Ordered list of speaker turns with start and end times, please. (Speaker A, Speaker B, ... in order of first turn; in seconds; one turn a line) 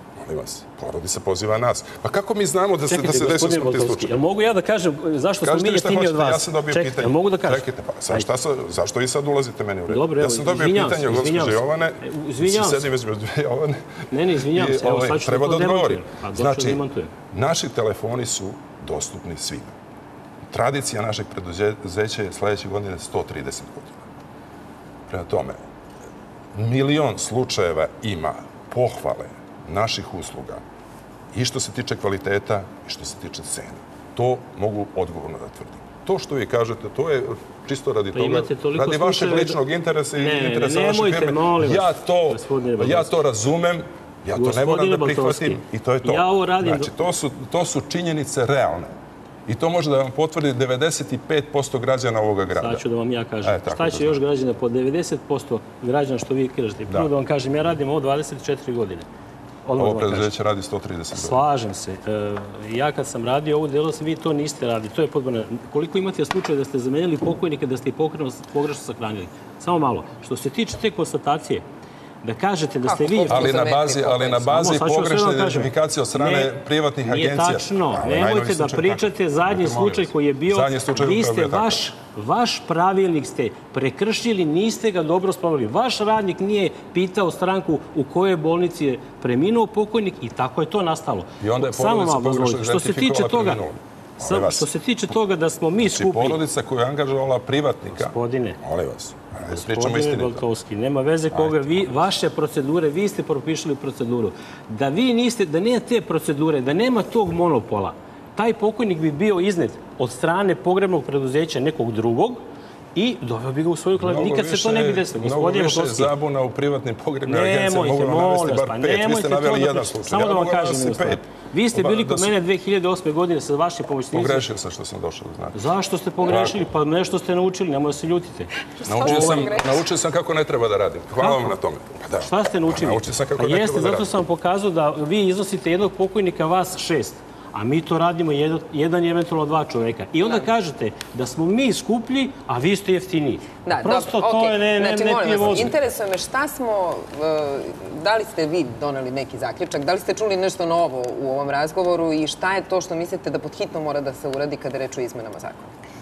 Speaker A: 0.2-4.2
Speaker B: 2.9-8.3
Speaker A: 5.4-19.7
Speaker B: 9.9-12.9
Speaker B: 14.1-17.1
Speaker A: 20.5-24.0
Speaker A: 25.1-25.6
Speaker A: 26.5-30.6
Speaker A: 31.3-48.9
Speaker B: 38.1-39.6
Speaker B: 40.1-43.1
Speaker B: 44.4-46.9
Speaker A: 49.5-52.8
Speaker B: 52.6-59.0
Speaker A: 53.4-54.2
Speaker B: 59.6-60.3
Speaker A: 59.8-61.4
Speaker B: 61.1-71.6
Speaker B: 72.2-73.7
Speaker C: 72.8-74.6
Speaker A: 73.3-81.8
Speaker B: 74.5-93.6
Speaker A: 91.4-94.7
Speaker B: 94.2-96.4
Speaker A: 95.8-100.4
Speaker B: 98.0-98.6
Speaker B: 99.5-112.4
Speaker A: 101.3-102.1
Speaker B: 112.9-116.1
Speaker A: 114.0-122.3
Speaker B: 117.2-124.5
Speaker A: 124.1-126.6
Speaker B: 125.5-129.6
Speaker A: 128.8-134.1
Speaker C: 128.8-129.8
Speaker B: 131.2-131.5
Speaker B: 132.2-145.7
Speaker C: 140.2-140.5
Speaker C: 143.7-155.7